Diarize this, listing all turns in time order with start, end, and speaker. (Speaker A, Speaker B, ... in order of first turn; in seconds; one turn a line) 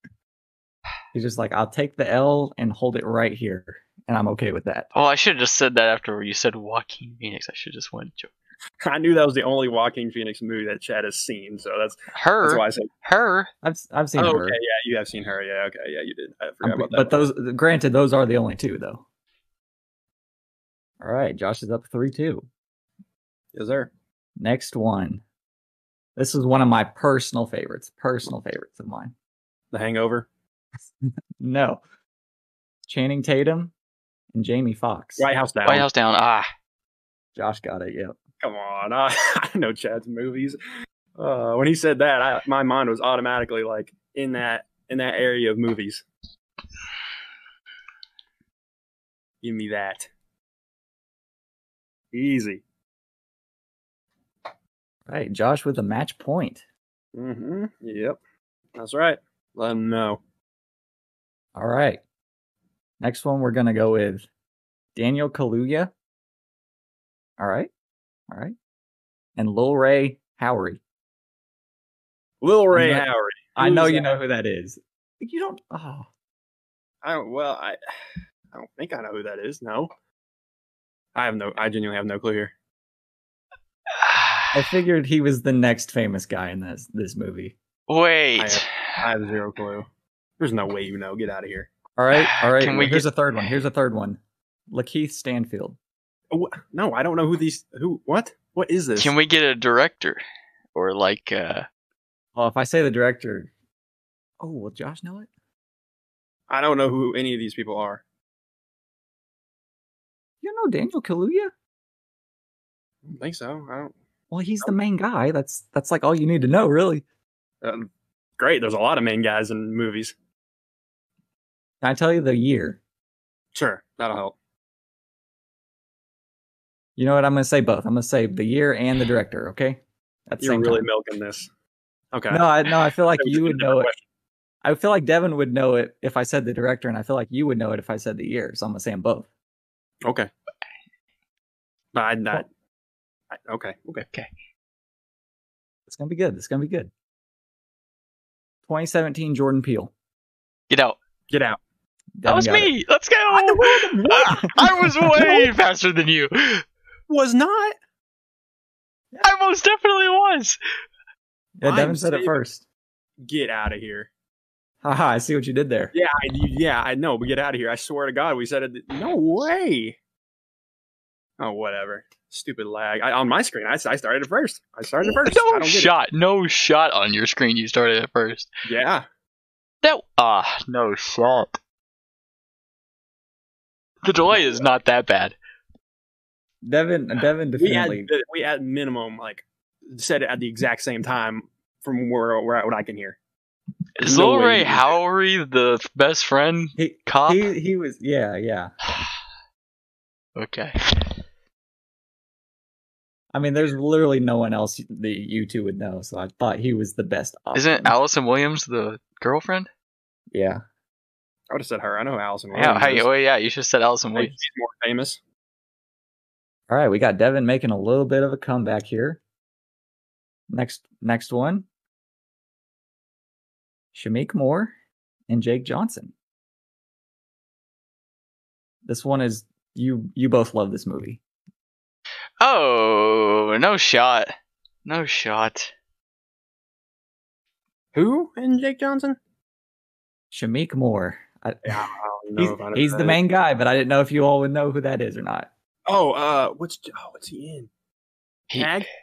Speaker A: 1.1-4.9
Speaker B: 4.9-8.3
Speaker C: 8.8-12.9
Speaker B: 12.1-13.5
Speaker A: 13.6-14.6
Speaker C: 14.2-17.2
Speaker A: 16.6-19.0
Speaker A: 21.0-22.5
Speaker C: 23.5-23.9
Speaker A: 24.4-25.2
Speaker A: 26.1-29.1
Speaker C: 29.7-30.3
Speaker A: 31.4-31.8
Speaker A: 32.9-33.7
Speaker A: 34.3-35.3
Speaker C: 35.2-35.9
Speaker B: 35.6-36.5
Speaker A: 37.4-38.2
Speaker C: 38.4-40.6
Speaker C: 41.1-46.0
Speaker C: 49.4-50.1
Speaker C: 52.1-52.6
Speaker A: 55.1-56.6
Speaker C: 57.1-58.2
Speaker C: 58.7-60.2
Speaker A: 61.5-62.0
Speaker A: 63.0-64.3
Speaker A: 65.0-65.9
Speaker A: 67.4-67.7
Speaker A: 68.3-68.5
Speaker A: 69.4-70.8
Speaker C: 72.4-74.1
Speaker A: 72.7-76.1
Speaker C: 77.0-77.8
Speaker C: 78.5-79.9
Speaker C: 81.1-82.5
Speaker B: 83.9-84.6
Speaker A: 84.5-87.6
Speaker B: 87.9-89.0
Speaker C: 88.4-89.9
Speaker C: 90.4-91.7
Speaker A: 92.0-94.2
Speaker B: 92.1-93.1
Speaker A: 94.7-95.8
Speaker C: 96.3-99.1
Speaker B: 99.0-100.2
Speaker B: 100.7-101.7
Speaker A: 102.3-103.5
Speaker A: 104.4-105.3
Speaker C: 106.5-108.0
Speaker A: 110.4-111.5
Speaker C: 113.0-113.9
Speaker A: 114.3-117.0
Speaker C: 117.6-120.1
Speaker A: 121.8-122.8
Speaker C: 123.5-124.3
Speaker A: 127.0-130.8
Speaker C: 130.4-131.5
Speaker C: 132.1-132.5
Speaker A: 132.3-133.9
Speaker C: 133.1-134.0
Speaker A: 134.6-139.3
Speaker C: 140.0-140.3
Speaker C: 141.9-142.5
Speaker C: 143.3-144.1
Speaker A: 145.9-146.9
Speaker A: 148.7-149.9
Speaker B: 150.7-151.0
Speaker C: 151.3-151.6
Speaker A: 152.2-152.7
Speaker B: 152.2-156.6
Speaker C: 153.3-154.5
Speaker A: 154.1-155.3
Speaker C: 157.1-157.8
Speaker B: 159.2-160.6
Speaker A: 161.6-162.6
Speaker C: 161.6-162.3
Speaker C: 163.2-164.1
Speaker A: 164.8-165.9
Speaker C: 165.9-170.0
Speaker C: 171.4-175.9
Speaker B: 175.1-178.5
Speaker C: 178.7-179.0
Speaker B: 179.8-181.6
Speaker B: 184.0-185.3
Speaker C: 184.3-184.6
Speaker A: 186.6-188.1
Speaker C: 187.6-193.2
Speaker B: 194.0-197.5
Speaker C: 194.0-194.9
Speaker A: 196.8-198.7
Speaker B: 198.8-199.1
Speaker B: 200.3-201.1
Speaker A: 203.3-207.9
Speaker B: 207.5-209.7
Speaker A: 210.3-210.6
Speaker C: 211.5-213.1
Speaker B: 212.5-214.3
Speaker C: 214.2-215.2
Speaker A: 216.7-219.2
Speaker A: 220.5-221.7
Speaker A: 223.9-224.7
Speaker A: 225.3-226.1
Speaker A: 228.8-231.2
Speaker B: 232.4-234.3
Speaker B: 234.8-235.7
Speaker C: 237.9-239.2
Speaker A: 240.3-245.5
Speaker C: 241.7-243.2
Speaker C: 245.8-247.7
Speaker C: 248.5-248.9